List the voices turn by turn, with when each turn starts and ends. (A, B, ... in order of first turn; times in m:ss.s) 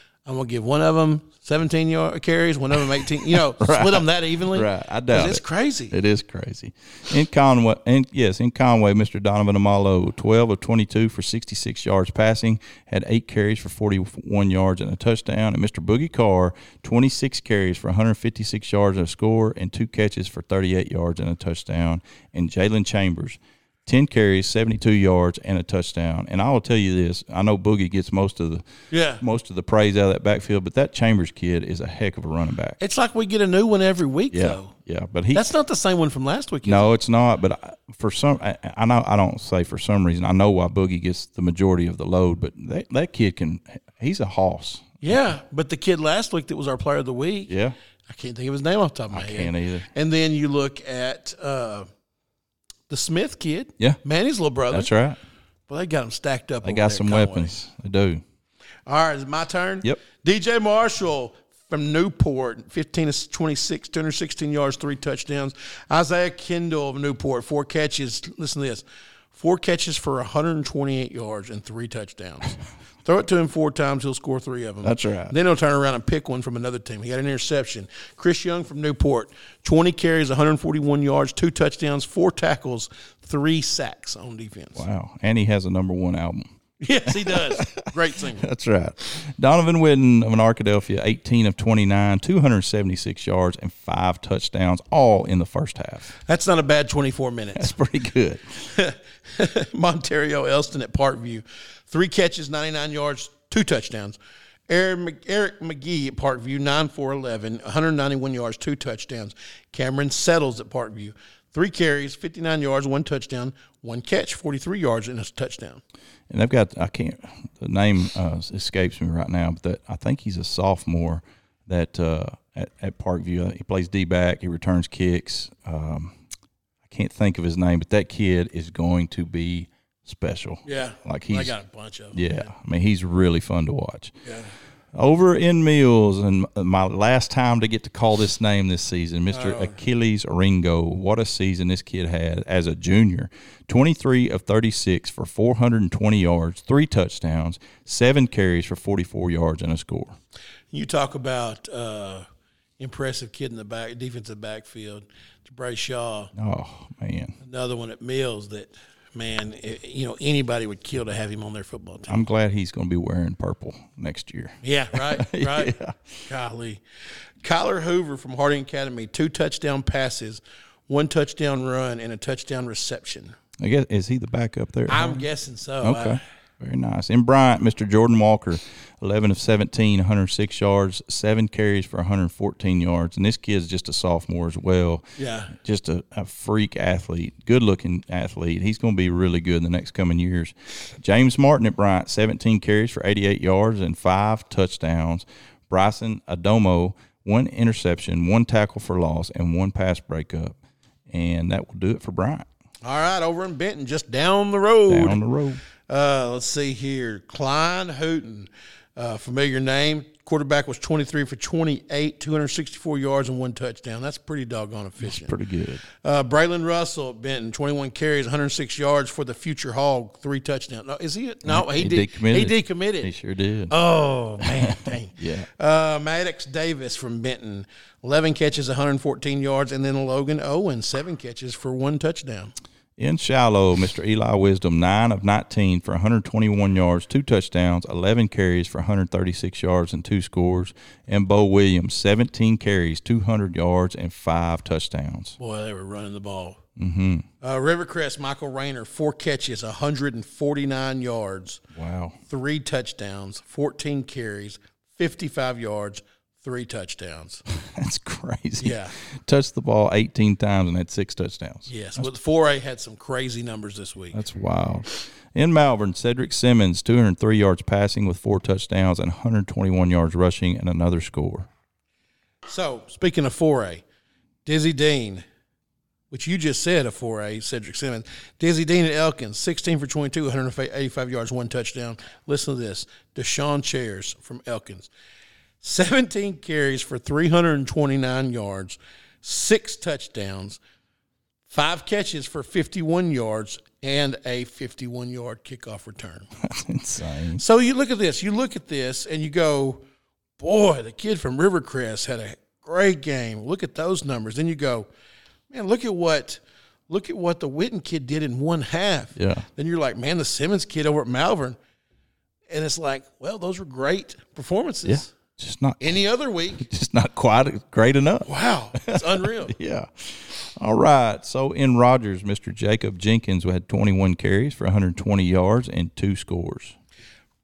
0:00.2-0:05.9 A
0:03.3-0:28.7 B
0:28.9-0:29.2 A
0:29.2-0:32.8 B
0:32.8-0:34.7 A
0:34.3-0:35.4 B
0:35.3-0:36.9 A
0:36.6-0:45.2 B
0:45.0-0:47.5 A
0:47.5-0:47.8 B
0:48.1-0:51.9 A
0:49.1-0:49.9 B
0:52.9-0:54.9 A
0:54.7-0:55.2 B
0:55.7-0:57.5 A
0:56.6-0:58.2 B
0:58.8-1:24.8 A
1:14.8-1:15.3 B
1:24.8-1:26.5 B
1:26.8-1:28.4 A
1:27.0-1:36.1 B
1:36.3-1:37.7 A
1:37.6-1:38.6 B
1:38.7-1:44.2 A
1:44.7-1:55.8 A
1:56.3-2:06.2 B
2:06.8-2:11.5 B
2:10.6-2:12.5 A
2:12.1-2:14.1 B
2:14.2-2:14.5 A
2:14.9-2:30.2 B
2:19.3-2:19.7 A
2:30.7-2:32.2 A
2:32.8-2:36.3 A
2:36.4-2:37.4 B
2:37.4-2:42.2 A
2:42.1-2:46.2 B
2:44.6-2:45.7 A
2:46.3-2:46.8 A
2:47.4-2:53.3 A
2:53.6-2:55.2 B
2:54.9-2:56.2 A
2:55.8-3:20.5 B
3:05.2-3:05.5 A
3:21.1-3:22.5 B
3:22.8-3:25.2 A
3:24.9-3:25.6 B
3:25.9-3:35.3 A
3:35.0-3:35.8 B
3:36.0-3:43.1 A
3:41.4-3:43.7 B
3:43.7-3:52.5 A
3:44.4-3:45.5 B
3:53.0-4:05.4 B
4:05.4-4:06.6 A
4:06.8-4:07.3 B
4:07.4-4:11.6 A
4:11.7-4:12.2 B
4:12.3-4:17.4 A
4:17.6-4:22.1 B
4:18.6-4:18.9 A
4:21.7-4:24.2 A
4:24.1-4:31.5 B
4:32.4-4:33.8 A
4:34.4-4:35.2 A
4:36.1-4:44.9 A
4:45.6-4:50.6 A
4:51.5-4:56.3 A
4:56.4-4:57.4 B
4:57.4-4:59.8 A
5:00.4-5:04.9 A
5:05.5-5:11.6 A
5:09.2-5:09.4 B
5:12.5-5:15.1 A
5:14.8-5:16.0 B
5:15.8-5:16.6 A
5:16.6-5:26.8 B
5:18.2-5:19.5 A